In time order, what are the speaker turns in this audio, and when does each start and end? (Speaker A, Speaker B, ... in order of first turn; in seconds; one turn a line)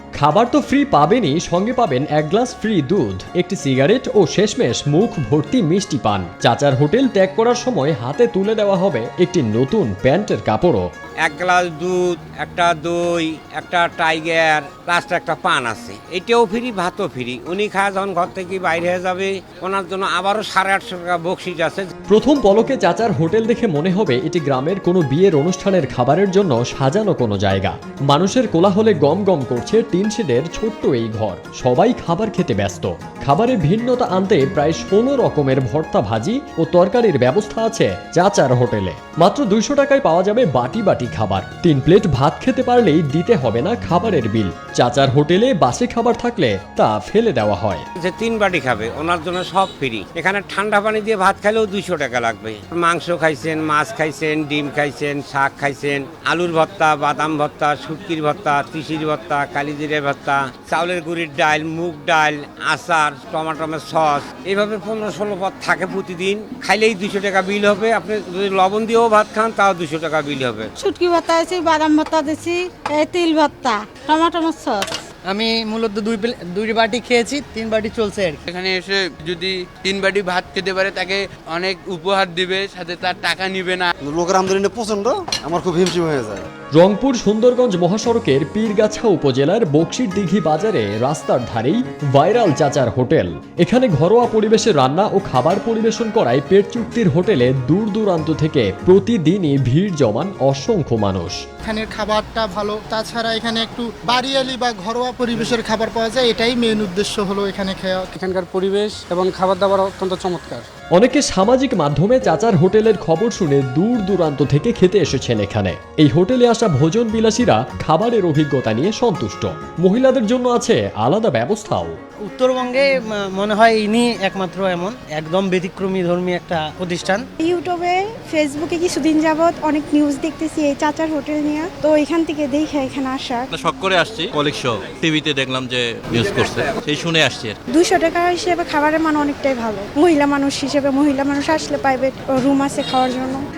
Speaker A: 0.2-10.8
Speaker B: 11.2-21.9
Speaker A: 22.1-47.8
Speaker B: 48.0-70.7
Speaker C: 70.8-75.0
Speaker D: 75.2-78.4
Speaker E: 78.5-83.9
Speaker F: 84.0-86.5
Speaker A: 86.7-101.4
Speaker G: 101.6-108.1
Speaker H: 108.2-110.6
Speaker A: 110.9-121.9
Speaker D: 122.2-127.2
Speaker I: 127.4-133.4
Speaker J: 133.5-137.6
Speaker I: 137.7-143.4